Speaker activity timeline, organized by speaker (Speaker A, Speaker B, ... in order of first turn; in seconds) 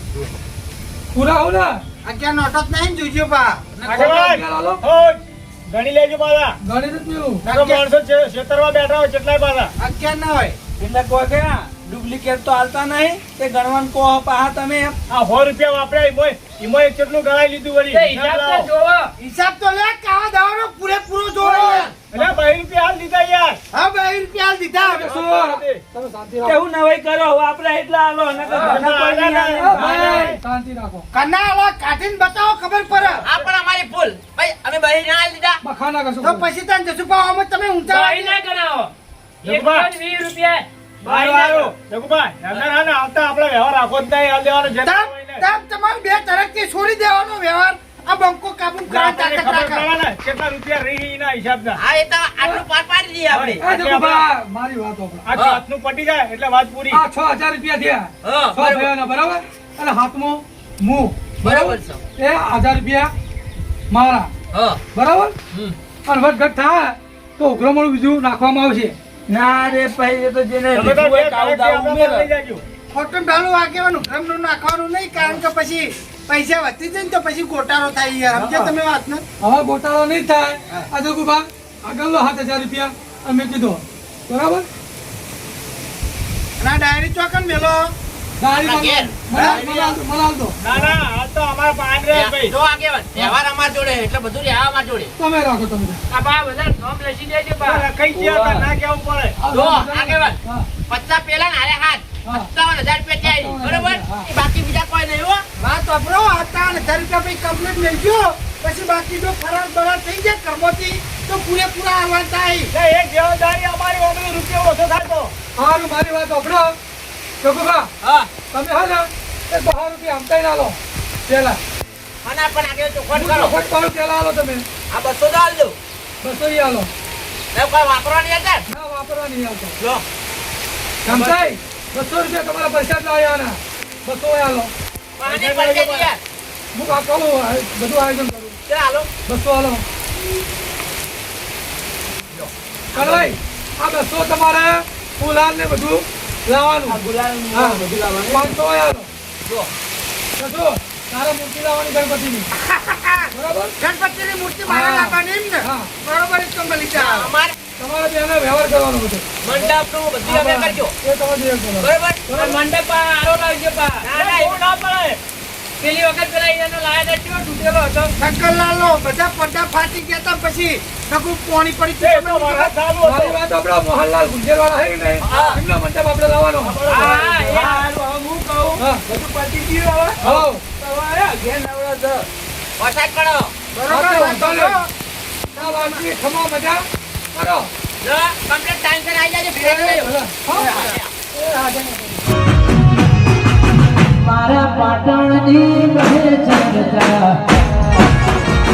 Speaker A: 1.1-1.8, 3.8-4.8, 6.6-7.4, 24.8-26.6, 28.5-28.8, 29.6-31.1, 35.6-36.4, 53.6-55.3, 56.9-63.1, 63.9-64.3, 64.9-65.3, 66.0-68.9, 79.4-84.7, 88.4-90.6, 95.2-96.0, 99.4-100.7, 102.2-102.5, 103.2-104.3, 115.6-116.8, 117.4-117.9, 118.5-121.6, 123.1-124.6, 126.2-126.9, 128.7-129.8, 131.0-134.7, 136.7-138.6, 139.2-139.8, 142.9-147.0, 147.5-149.1, 150.4-152.5, 153.3-153.7, 154.7-155.9, 157.8-159.2, 160.2-162.5, 173.0-176.8, 178.8-179.0, 180.2-180.6, 183.9-184.8, 185.5-187.7, 189.5-190.8, 191.3-192.2
Speaker B: 2.0-3.7, 7.4-7.8, 9.8-10.6, 19.2-21.9, 23.7-25.1, 31.1-33.2, 36.2-38.4, 44.8-49.9, 72.9-79.2, 86.6-87.9, 89.3-89.6, 105.6-112.7, 152.6-157.3, 168.2-172.7, 183.7-184.9, 185.6-186.0, 190.5-191.0
Speaker C: 3.8-6.6, 7.5-9.7, 15.1-18.7, 22.1-23.6, 25.0-25.8, 28.6-30.4, 39.4-39.9, 41.0-45.4, 48.9-51.8, 53.3-54.2, 55.2-57.0, 70.7-72.6, 78.3-78.7, 90.6-92.5, 97.6-99.3, 112.7-115.3, 135.2-136.1, 164.1-165.2, 172.0-173.4, 176.6-177.4
Speaker D: 10.8-15.0, 26.4-30.1, 33.0-33.2, 69.3-72.3, 98.1-98.7, 146.9-148.6, 177.3-182.3
Speaker E: 17.9-19.1, 37.9-38.9, 39.4-41.7, 96.1-97.8, 162.3-164.1, 165.8-168.1, 176.8-177.8
Speaker F: 21.4-21.9, 33.2-35.6, 51.8-53.6, 55.3-55.6, 58.2-58.9, 61.4-62.0, 64.5-64.8, 88.5-90.0, 92.1-95.1, 99.5-105.4, 118.0-118.3, 122.2-123.5, 124.9-125.8, 127.5-128.6, 131.1-131.4, 135.2-136.2, 138.7-139.1, 142.3-143.3, 156.9-157.5, 159.4-160.9, 161.8-162.6, 164.0-164.6, 175.2-175.6, 182.8-183.5, 188.0-191.1, 194.2-197.3